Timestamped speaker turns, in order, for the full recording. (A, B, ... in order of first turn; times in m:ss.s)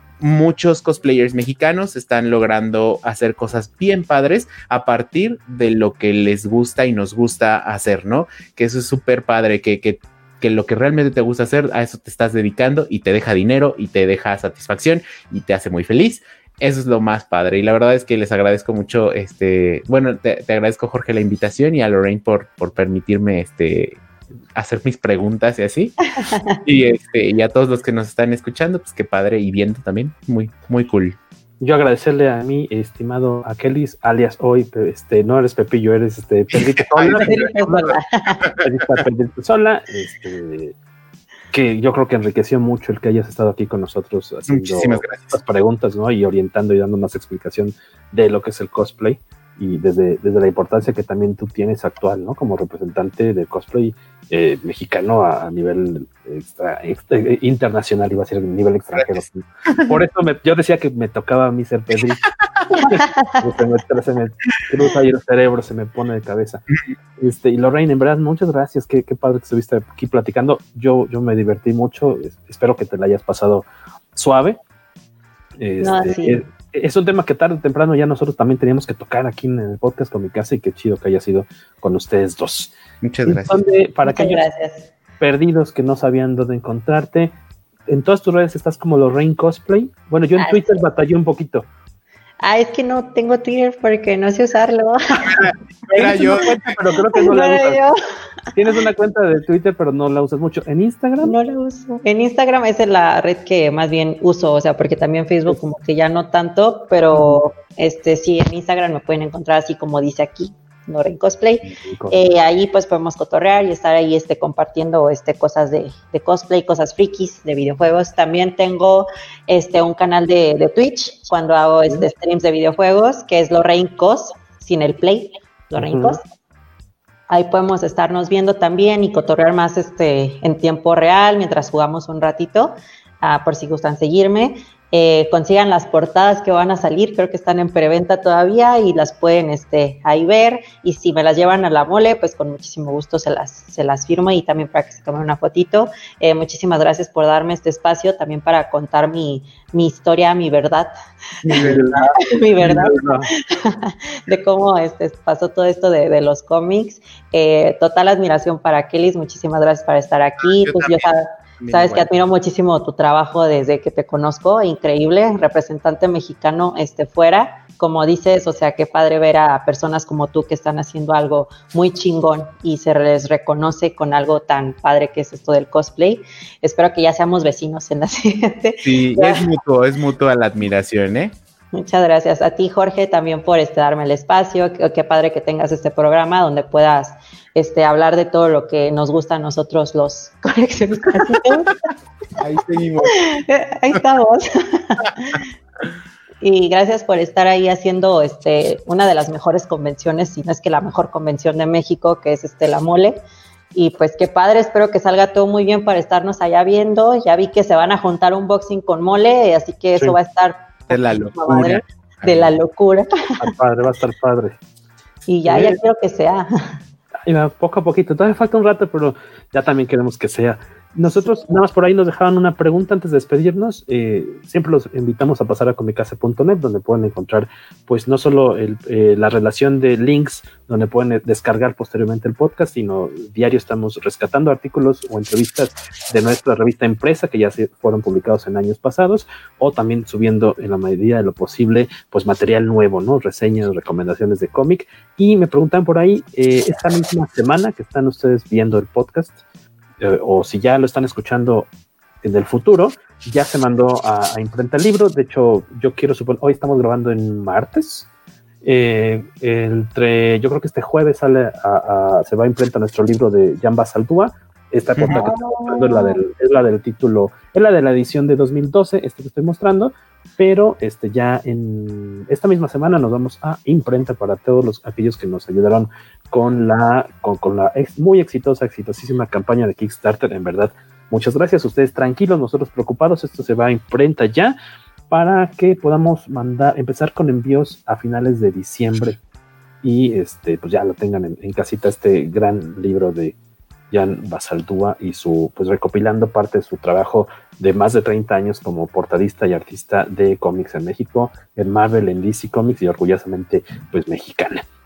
0:00.2-0:24.0 A
0:24.5-0:26.0 A
0:26.2-0:26.6 B
0:26.6-0:31.2 A
0:31.6-0:38.0 C
0:36.8-0:37.9 A
0:37.2-0:38.5 B
0:38.6-0:40.7 C
0:41.5-1:06.6 C
0:44.5-0:45.4 A
0:58.9-0:59.8 A
1:02.8-1:03.4 B
1:07.2-1:14.6 C
1:15.6-1:22.7 C
1:15.8-1:16.4 B
1:23.0-1:23.6 A
1:23.2-1:24.5 C
1:24.0-1:24.9 B
1:25.2-1:27.3 C
1:27.9-1:31.7 C
1:30.4-1:30.8 B
1:32.4-1:35.4 B
1:35.2-1:36.7 A
1:35.9-1:37.8 C
1:35.9-1:36.3 B
1:37.1-1:38.0 B
1:38.5-1:41.4 C
1:41.2-2:06.2 B
1:47.1-1:47.4 C
1:51.6-1:52.2 C
2:05.8-2:06.2 C
2:07.3-2:30.9 B
2:31.5-2:33.3 C
2:31.5-2:31.8 A
2:31.5-2:59.5 B
2:40.4-2:42.2 A
2:58.8-3:01.3 A
3:01.7-3:11.8 B
3:12.4-3:13.2 A
3:13.1-3:15.4 B
3:16.4-3:23.2 B
3:23.7-3:33.1 B
3:30.9-3:32.5 A
3:33.4-3:34.6 C
3:35.3-3:36.8 B
3:35.4-3:35.8 C
3:37.2-4:09.4 C
3:41.0-3:41.5 B
4:10.0-4:11.7 C
4:12.2-4:18.1 C
4:18.6-4:44.6 C
4:25.0-4:25.3 A
4:25.1-4:26.2 B
4:45.1-4:49.2 C
4:49.8-4:53.4 C
4:53.9-5:04.6 C